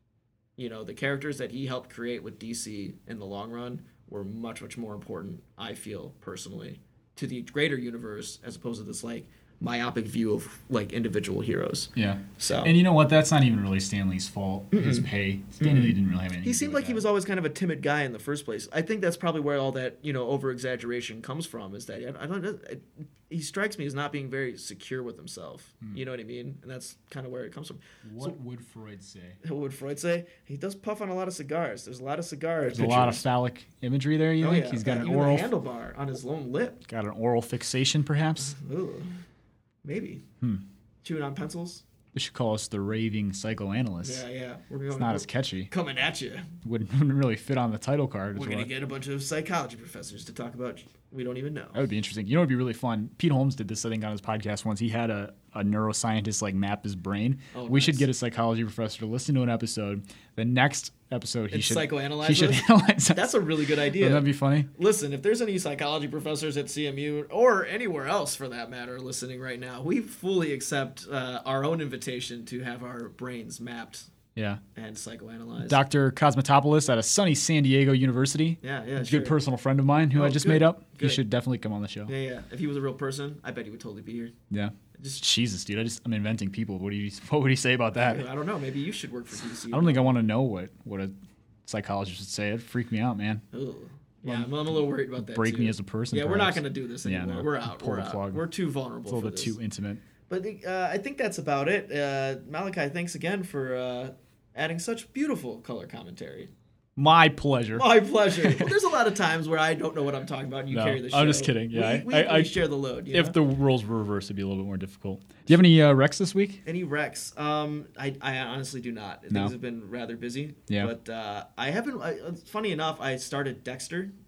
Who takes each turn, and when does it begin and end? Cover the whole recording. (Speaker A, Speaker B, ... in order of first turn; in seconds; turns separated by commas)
Speaker A: 0.6-12.7, Speaker B: 12.0-17.1, Speaker A: 14.7-15.1, Speaker A: 15.6-28.3, Speaker B: 28.0-29.4, Speaker A: 29.4-33.3, Speaker B: 32.7-35.5, Speaker A: 34.4-36.8, Speaker B: 36.9-38.5, Speaker A: 38.4-39.1, Speaker A: 39.8-40.2, Speaker A: 41.0-41.8, Speaker B: 42.1-44.2, Speaker A: 44.0-46.5, Speaker B: 44.9-45.7, Speaker B: 46.6-48.7, Speaker A: 48.3-51.8, Speaker B: 51.7-64.7, Speaker A: 57.5-58.1, Speaker A: 61.5-74.1, Speaker B: 74.4-74.6, Speaker A: 74.8-75.8, Speaker B: 75.6-82.1, Speaker A: 78.6-79.4, Speaker A: 80.1-81.2, Speaker A: 82.1-84.3, Speaker B: 84.5-88.2, Speaker A: 85.0-85.2, Speaker A: 88.0-90.2, Speaker B: 89.7-91.1, Speaker B: 91.7-93.4, Speaker A: 93.5-99.6, Speaker B: 94.2-98.5, Speaker B: 99.1-100.0, Speaker A: 100.3-106.5, Speaker B: 107.0-108.7, Speaker A: 107.8-113.4, Speaker B: 110.7-116.6, Speaker A: 116.7-124.1